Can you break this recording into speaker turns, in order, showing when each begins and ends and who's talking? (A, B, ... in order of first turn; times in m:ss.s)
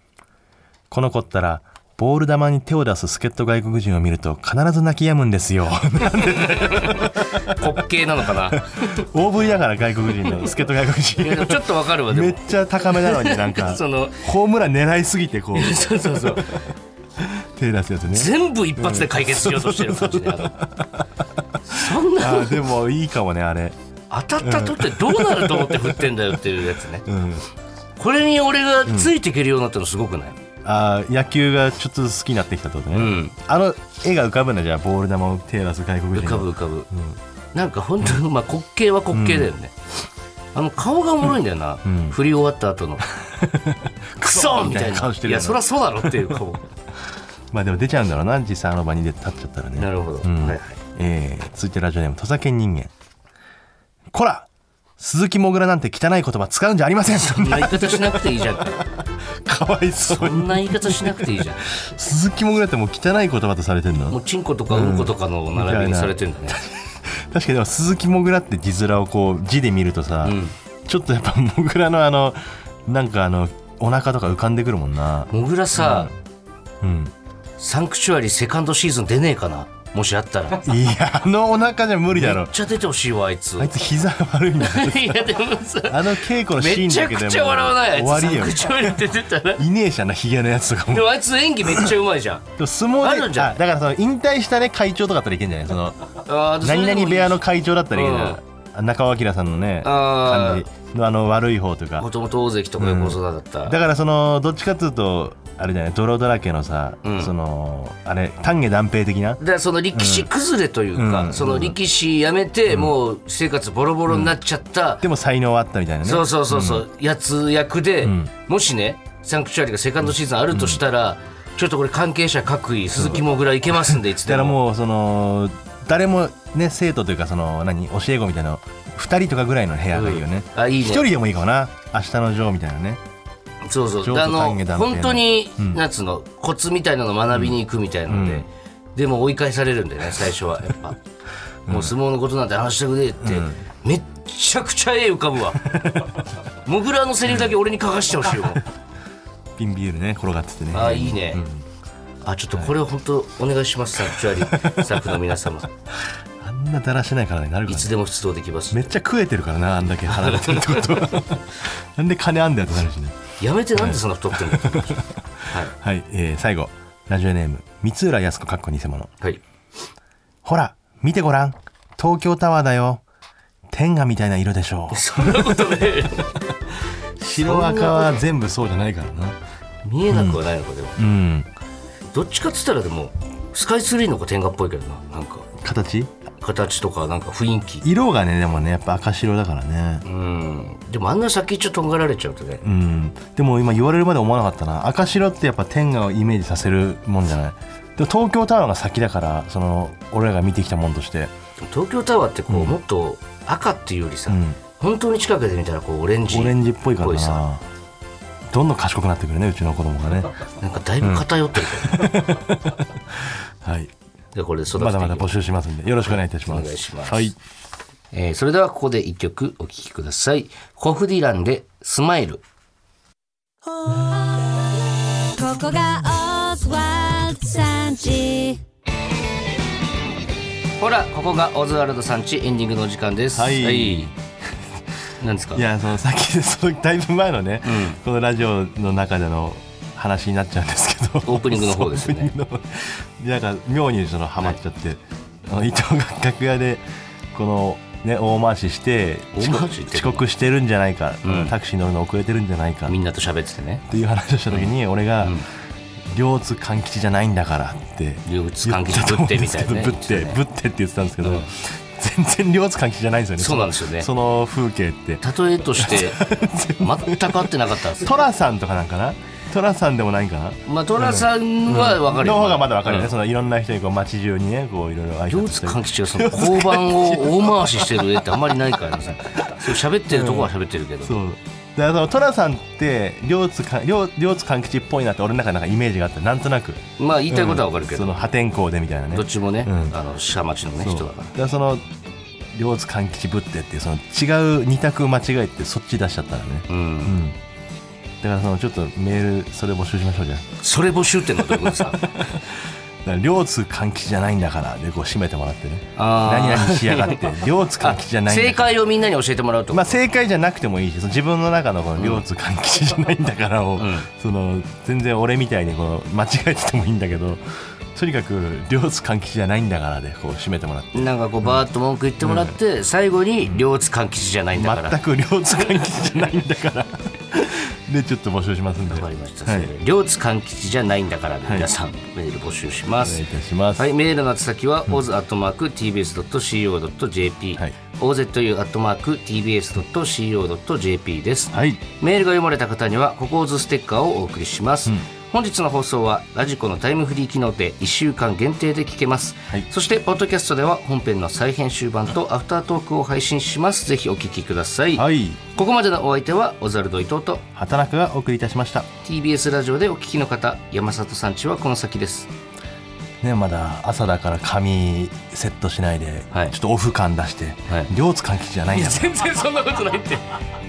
0:00.9-0:07.8 A
0:06.3-0:08.6 B
0:08.3-0:16.6 A
0:11.2-0:14.2 B
0:15.5-0:16.6 B
0:17.2-0:21.0 A
0:18.1-0:20.6 B
0:21.6-0:22.6 B
0:21.7-0:23.8 A
0:24.1-0:27.1 B
0:24.4-0:26.4 A
0:27.0-0:27.5 A
0:28.0-0:30.4 B
0:28.9-0:29.1 A
0:30.6-0:37.2 A
0:32.9-0:33.3 B
0:36.1-0:36.9 B
0:37.5-0:39.7 B
0:39.1-0:39.5 A
0:40.5-0:43.1 B
0:41.8-0:42.2 A
0:43.1-0:46.3 A
0:44.2-0:46.6 B
0:47.5-0:52.9 A
0:49.8-0:50.8 B
0:54.1-1:04.2 A
0:57.2-0:58.9 B
1:00.0-1:01.7 B
1:04.1-1:06.6 B
1:04.7-1:16.1 A
1:10.2-1:10.5 B
1:15.3-1:16.1 B
1:16.8-1:17.1 A
1:17.6-1:20.8 B
1:20.6-1:22.6 A
1:22.1-1:23.7 B
1:23.6-1:25.3 A
1:24.6-1:29.6 B
1:25.8-1:31.1 A
1:30.9-1:33.6 B
1:32.6-1:36.0 A
1:36.2-1:38.4 B
1:36.6-1:42.1 A
1:39.8-1:40.7 B
1:42.0-1:43.8 B
1:42.8-1:49.4 A
1:47.0-1:47.3 B
1:49.4-1:55.0 B
1:49.9-1:50.3 A
1:50.9-1:51.8 A
1:52.7-1:52.9 A
1:54.1-1:54.4 A
1:55.0-1:56.9 A
1:56.0-2:04.6 B
1:58.0-1:58.3 A
2:00.5-2:00.8 A
2:03.8-2:13.0 A
2:09.9-2:11.0 B
2:13.6-2:21.0 B
2:14.0-2:15.8 A
2:18.1-2:18.4 A
2:21.7-2:21.9 A
2:21.7-2:25.8 B
2:23.2-2:23.6 A
2:25.7-2:26.2 A
2:26.6-2:28.6 B
2:29.6-2:31.6 A
2:30.7-2:31.4 B
2:32.2-2:35.7 B
2:34.1-2:35.0 A
2:36.4-2:37.9 A
2:37.7-2:39.0 B
2:38.7-2:43.2 A
2:40.1-2:41.3 B
2:43.4-2:45.7 B
2:43.7-2:49.1 A
2:50.4-2:53.0 A
2:53.7-2:56.1 A
2:54.9-2:56.4 B
2:57.2-2:59.4 A
2:57.2-2:58.2 B
2:59.8-3:01.0 B
3:00.1-3:00.4 A
3:01.0-3:01.5 A
3:02.1-3:05.5 B
3:05.6-3:06.1 A
3:06.4-3:07.8 B
3:07.8-3:10.0 A
3:10.0-3:12.6 B
3:12.6-3:21.3 A
3:21.6-3:27.4 B
3:22.5-3:22.8 A
3:24.3-3:24.6 A
3:26.3-3:27.6 A
3:28.5-3:30.4 A
3:30.6-3:32.3 B
3:31.0-3:33.9 A
3:34.3-3:35.3 B
3:34.7-3:37.4 A
3:36.3-3:37.3 B
3:38.1-3:42.4 B
3:43.9-3:48.6 C
3:50.8-3:54.1 B
3:53.3-3:54.2 A
3:55.2-3:55.7 B
3:55.5-4:13.0 A
3:57.6-3:58.0 B
4:01.2-4:02.3 B
4:09.3-4:10.2 B
4:11.2-4:11.5 B
4:12.9-4:13.8 B
4:13.9-4:15.4 A
4:16.1-4:25.2 A
4:18.2-4:20.4 B
4:21.2-4:21.5 B
4:23.4-4:24.1 B
4:25.2-4:28.3 B
4:25.8-4:38.5 A
4:30.6-4:33.1 B
4:35.3-4:41.2 B
4:39.4-4:50.0 A
4:47.0-4:48.2 B
4:49.1-4:51.3 B
4:50.8-4:51.8 A
4:52.5-4:57.4 A
4:56.7-4:57.2 B
4:58.2-5:00.5 A
5:00.6-5:02.0 B
5:01.5-5:08.8 A
5:06.0-5:10.0 B
5:09.7-5:17.4 A
5:12.0-5:12.2 B
5:13.8-5:14.1 B
5:17.9-5:21.6 A
5:20.9-5:25.0 B
5:22.2-5:22.6 A
5:24.5-5:29.7 A
5:28.9-5:33.2 B
5:33.0-5:33.9 A
5:33.7-5:57.4 B
5:41.5-5:41.8 A
5:54.9-5:55.4 A
5:57.5-5:58.9 A
5:59.0-6:02.3 B
6:03.2-6:09.1 A
6:08.7-6:10.4 B